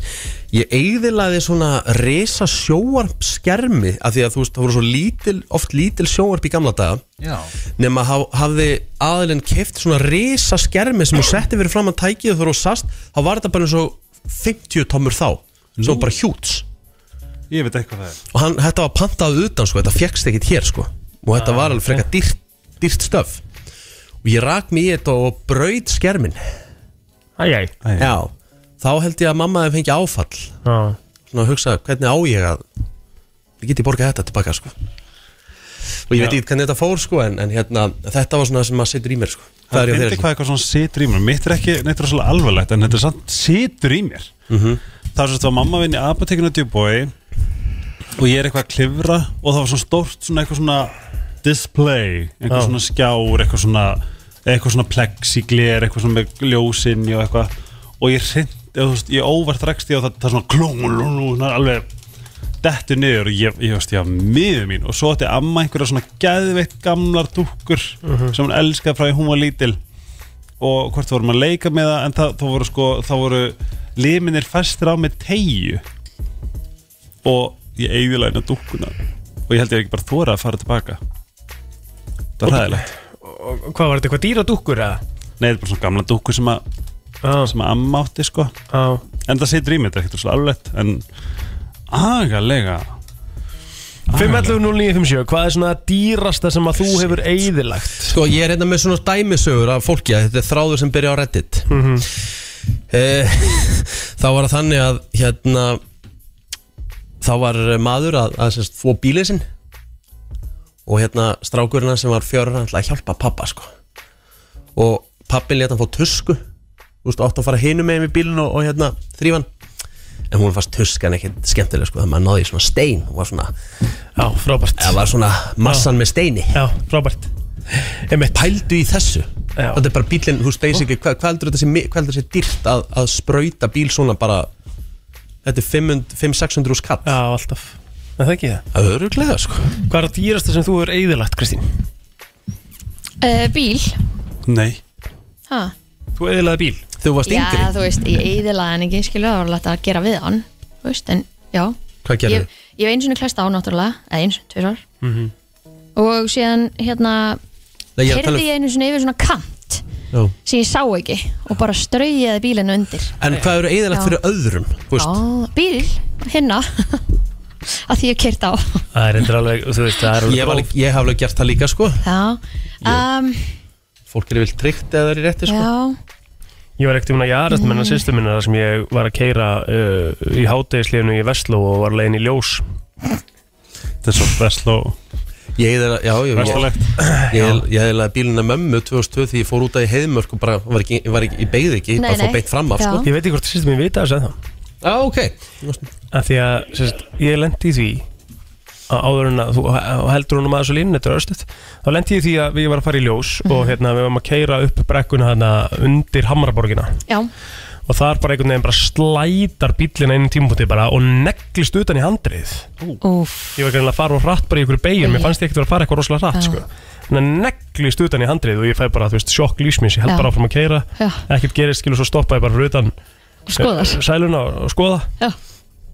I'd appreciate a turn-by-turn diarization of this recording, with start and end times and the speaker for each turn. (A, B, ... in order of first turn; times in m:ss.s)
0:00.5-0:07.1 A
0:07.2-0:07.5 B
0:07.8-0:16.6 A
0:15.8-0:16.1 B
0:17.5-0:18.2 B
0:18.3-0:23.4 A
0:21.3-0:22.0 C
0:24.2-0:26.4 A
0:27.4-0:27.7 C
0:27.8-0:28.1 B
0:28.0-0:30.6 A
0:30.6-0:31.0 C
0:31.3-0:32.6 A
0:33.6-0:34.7 A
0:36.1-0:40.3 A
0:39.7-0:44.3 B
0:44.5-0:44.8 A
0:45.2-0:47.1 B
0:48.2-1:01.9 B
0:52.5-0:52.8 C
1:02.6-1:09.8 B
1:08.0-1:08.4 C
1:10.6-1:15.8 B
1:17.2-1:19.0 B
1:19.5-1:21.0 B
1:22.4-1:22.9 B
1:22.5-1:25.0 C
1:25.4-1:26.6 B
1:27.2-1:27.5 C
1:27.4-1:28.5 B
1:28.7-1:29.0 C
1:29.2-1:31.0 B
1:31.9-1:32.9 B
1:34.1-1:34.6 B
1:34.1-1:38.2 C
1:38.1-1:41.7 A
1:41.7-1:42.1 C
1:42.9-1:45.8 A
1:47.2-1:49.5 A
1:50.9-1:53.7 A
1:54.8-1:56.4 A
1:57.0-1:59.5 A
2:00.3-2:03.5 A
2:04.2-2:05.0 C
2:04.8-2:06.6 A
2:06.5-2:07.3 C
2:08.1-2:08.4 C
2:08.3-2:14.5 A
2:09.6-2:09.8 C
2:15.4-2:17.2 A
2:17.0-2:18.6 C
2:18.7-2:19.8 A
2:19.9-2:21.8 C
2:23.2-2:24.0 D
2:24.5-2:24.8 B
2:25.5-2:25.7 D
2:26.2-2:26.8 C
2:27.0-2:27.7 A
2:27.3-2:34.8 D
2:32.0-2:32.5 A
2:35.0-2:35.3 C
2:36.0-2:37.4 D
2:38.0-2:38.4 A
2:38.1-2:39.8 D
2:40.4-2:43.2 D
2:43.2-2:45.2 A
2:45.0-2:47.1 D
2:47.7-2:48.9 D
2:48.9-2:50.7 C
2:50.2-2:52.0 A
2:52.0-2:53.6 D
2:54.1-2:55.7 A
2:55.5-2:56.0 D
2:56.8-3:02.6 C
2:57.5-2:58.0 D
3:04.0-3:05.0 B
3:05.6-3:13.1 A
3:06.3-3:07.0 B
3:07.0-3:07.6 C
3:12.0-3:13.1 D
3:13.0-3:14.4 C
3:14.8-3:15.9 A
3:16.1-3:18.0 C
3:18.9-3:27.0 C
3:23.4-3:23.8 D
3:27.9-3:32.7 C
3:33.0-3:33.6 D
3:33.6-3:42.9 C
3:35.0-3:35.3 D
3:36.3-3:36.6 D
3:41.0-3:41.2 D
3:43.5-3:44.0 D
3:43.6-3:45.1 C